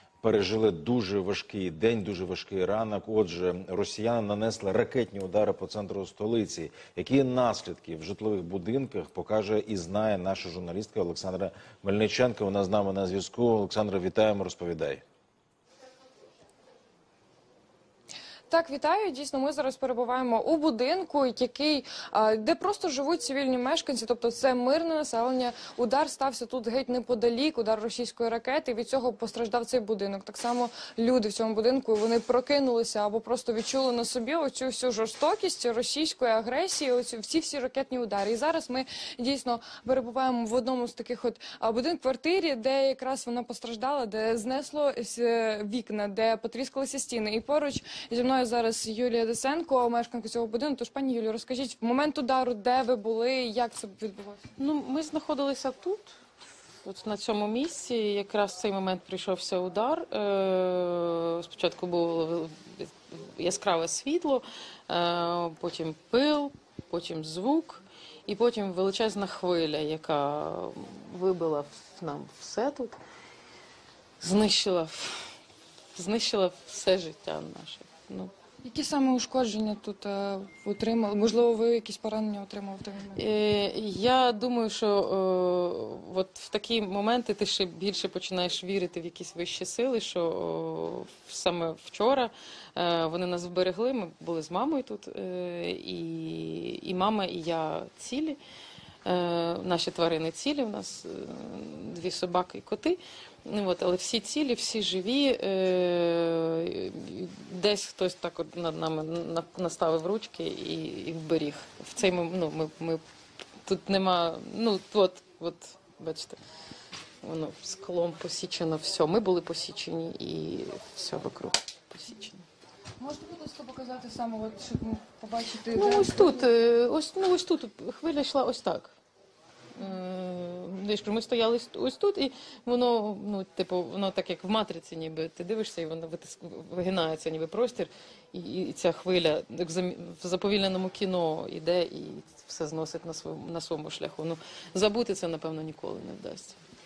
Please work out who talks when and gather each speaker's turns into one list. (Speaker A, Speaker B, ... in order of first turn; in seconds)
Speaker A: 0.2-15.0
Speaker B: 18.5-54.5, 78.6-83.2, 123.0-126.5
Speaker C: 54.6-56.1, 56.8-73.0, 74.2-75.3, 75.9-78.3, 83.1-98.4, 99.0-113.0, 113.6-116.4, 117.2-122.4, 125.7-128.9, 129.7-146.6